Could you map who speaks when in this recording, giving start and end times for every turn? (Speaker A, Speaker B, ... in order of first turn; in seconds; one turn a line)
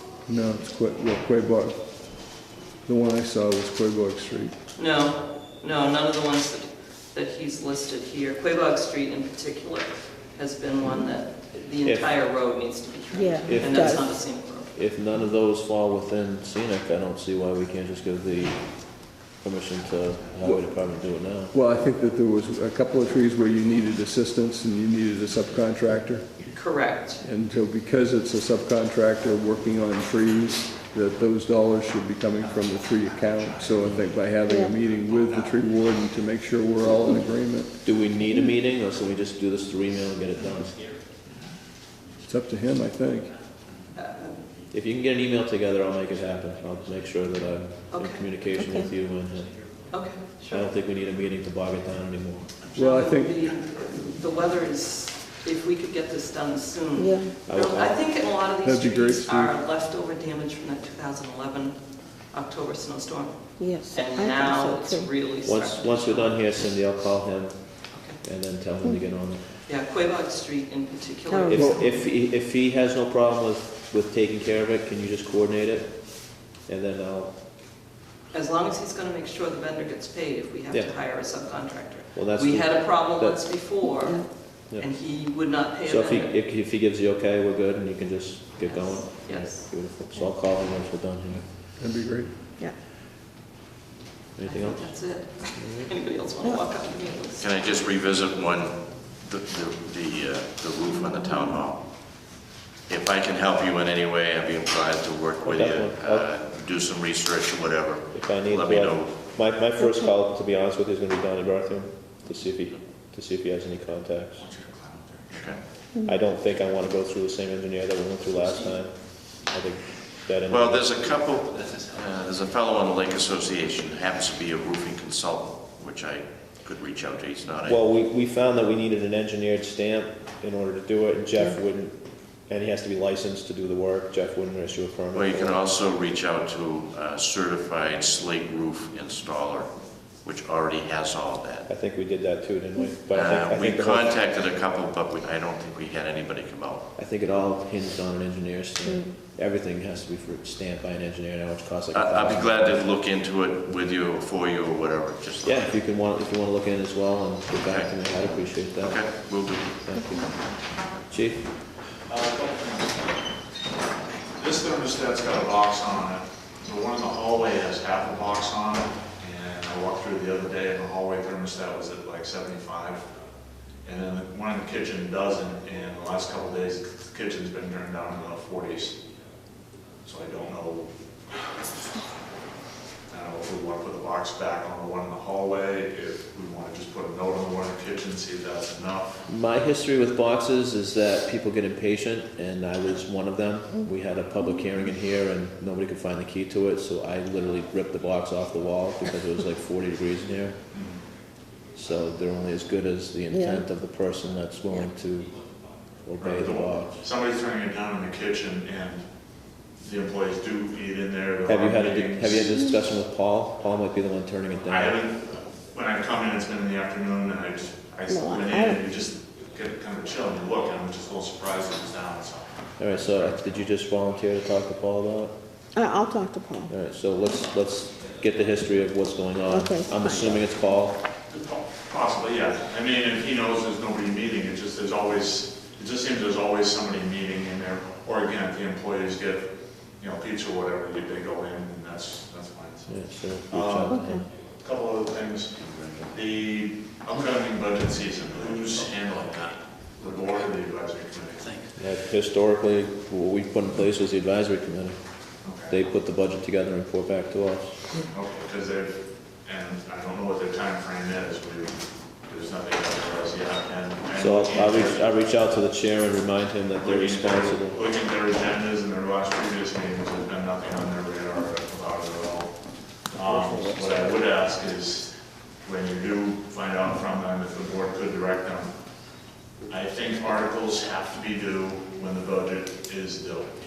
Speaker A: 0.3-1.9
Speaker A: 2.9-4.6
Speaker B: 4.8-14.7
Speaker C: 11.8-12.2
Speaker D: 13.1-14.0
Speaker C: 13.4-21.6
Speaker A: 21.5-26.5
Speaker B: 26.5-27.2
Speaker A: 27.2-37.8
Speaker D: 34.5-34.8
Speaker E: 35.1-35.6
Speaker C: 37.8-40.8
Speaker A: 42.2-43.3
Speaker B: 44.0-44.4
Speaker C: 44.7-49.7
Speaker B: 47.9-48.3
Speaker D: 48.6-48.9
Speaker B: 49.9-50.7
Speaker C: 50.5-52.5
Speaker B: 52.7-61.8
Speaker A: 52.8-53.4
Speaker D: 57.0-57.3
Speaker C: 57.5-58.0
Speaker A: 58.6-59.5
Speaker B: 62.3-66.4
Speaker D: 63.6-65.1
Speaker C: 65.4-69.4
Speaker B: 67.9-68.2
Speaker B: 69.7-71.9
Speaker D: 71.3-71.6
Speaker C: 71.5-77.3
Speaker B: 78.3-86.3
Speaker C: 80.7-81.0
Speaker C: 82.2-83.6
Speaker C: 84.7-85.0
Speaker C: 85.8-91.7
Speaker B: 88.6-89.7
Speaker A: 91.3-92.3
Speaker C: 94.4-94.9
Speaker B: 94.5-97.6
Speaker F: 97.4-101.8
Speaker F: 102.9-109.2
Speaker C: 105.4-106.3
Speaker C: 108.1-114.4
Speaker E: 114.4-115.6
Speaker F: 115.3-115.6
Speaker C: 116.0-121.1
Speaker F: 120.5-127.8
Speaker C: 127.7-135.6
Speaker F: 135.1-139.7
Speaker F: 140.2-141.7
Speaker C: 141.7-144.2
Speaker F: 143.1-146.9
Speaker C: 147.0-152.8
Speaker F: 151.9-155.7
Speaker C: 155.4-159.2
Speaker F: 157.6-157.9
Speaker F: 158.8-159.8
Speaker C: 159.8-160.2
Speaker C: 161.1-161.5
Speaker E: 162.1-163.1
Speaker E: 164.4-173.0
Speaker E: 173.8-179.0
Speaker E: 180.1-180.9
Speaker E: 183.1-189.2
Speaker C: 189.3-200.6
Speaker E: 200.7-201.0
Speaker C: 201.8-205.4
Speaker D: 203.3-203.6
Speaker C: 206.0-207.0
Speaker E: 206.2-209.1
Speaker E: 209.8-212.6
Speaker C: 211.5-215.0
Speaker E: 214.7-223.4
Speaker D: 218.1-218.8
Speaker C: 222.8-225.3
Speaker D: 225.8-226.7
Speaker C: 226.7-231.1
Speaker D: 229.4-230.5
Speaker E: 231.3-242.9
Speaker C: 242.9-244.2
Speaker E: 243.5-244.1
Speaker D: 243.9-244.2
Speaker E: 244.6-251.6
Speaker F: 245.6-246.1
Speaker C: 251.8-255.0
Speaker E: 255.4-255.8
Speaker C: 255.7-257.8
Speaker E: 258.1-265.1
Speaker C: 264.2-267.8
Speaker E: 266.8-272.6
Speaker E: 273.1-278.7
Speaker E: 279.7-283.5